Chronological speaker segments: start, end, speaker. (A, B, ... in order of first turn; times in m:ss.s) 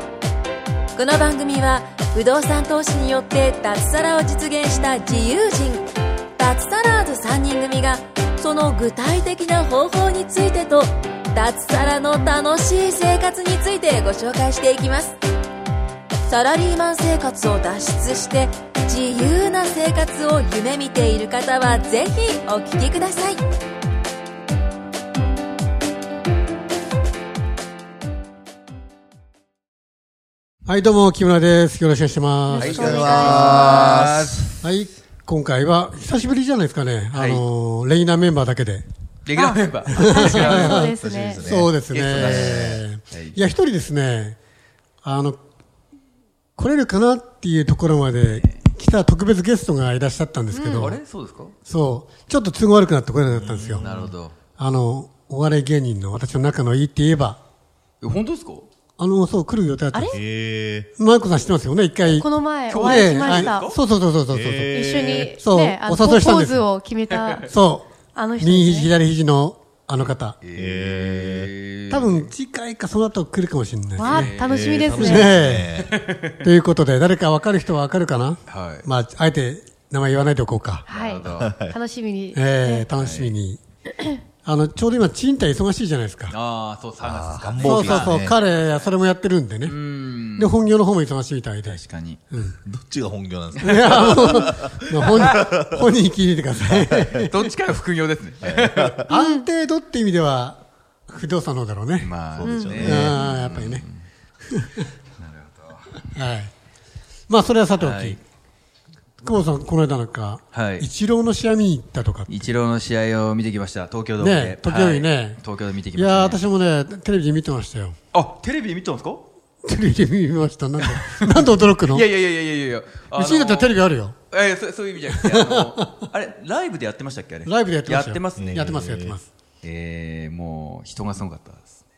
0:01.0-0:05.8 A
0:06.4-0:15.2 A
0:16.3-0:23.4 A
0:30.7-0:32.8 B
0:32.5-0:33.8 C
0:32.6-0:34.6 D
0:32.6-0:34.5 E
0:34.6-0:38.9 B
0:37.1-0:37.5 D
0:39.2-0:40.8 D
0:39.4-0:41.4 C
0:39.9-0:44.4 B
0:40.8-0:42.8 E
0:41.9-0:43.4 D
0:45.0-0:45.4 B
0:46.6-0:51.0 B
0:48.3-0:48.6 D
0:50.5-0:51.0 C
0:50.8-0:51.6 D
0:51.7-0:53.9 B
0:53.3-0:54.1 E
0:53.8-0:54.4 D
0:54.6-0:57.4 B
0:58.0-0:58.7 D
0:59.0-1:00.2 B
0:59.9-1:00.2 C
1:00.1-1:00.9 E
1:01.0-1:06.7 B
1:02.1-1:03.7 C
1:02.7-1:03.8 D
1:04.3-1:05.3 E
1:04.7-1:07.5 C
1:07.5-1:10.4 B
1:08.1-1:08.9 C
1:10.0-1:12.3 D
1:10.6-1:11.5 E
1:11.9-1:14.3 B
1:14.0-1:15.3 C
1:14.0-1:16.3 D
1:14.4-1:15.9 E
1:14.9-1:15.7 B
1:16.4-1:20.9 B
1:18.5-1:18.9 D
1:20.9-1:21.5 D
1:20.9-1:22.9 C
1:21.3-1:21.8 E
1:22.4-1:23.6 B
1:23.0-1:23.4 D
1:24.4-1:26.4 B
1:26.3-1:28.9 D
1:27.0-1:28.4 E
1:27.6-1:29.8 B
1:29.6-1:30.7 D
1:30.4-1:32.6 B
1:31.6-1:32.2 D
1:32.6-1:35.9 E
1:33.6-1:34.4 D
1:33.6-1:37.4 B
1:36.8-1:37.2 E
1:37.2-1:39.0 D
1:38.4-1:39.1 E
1:39.1-1:42.1 B
1:39.1-1:39.5 C
1:42.0-1:44.1 D
1:42.4-1:43.2 E
1:42.4-1:43.0 C
1:42.8-1:43.8 B
1:44.4-1:44.9 B
1:45.2-1:46.0 D
1:46.1-1:46.5 B
1:47.3-1:48.2 B
1:47.8-1:48.2 D
1:49.2-1:52.3 B
1:50.5-1:50.9 D
1:52.3-1:56.4 D
1:54.2-1:55.4 B
1:55.9-1:58.0 B
1:58.1-1:59.3 D
1:59.6-2:02.1 B
2:00.8-2:08.7 D
2:03.1-2:04.2 B
2:05.1-2:06.0 B
2:07.5-2:09.3 B
2:08.4-2:09.2 E
2:09.6-2:11.8 D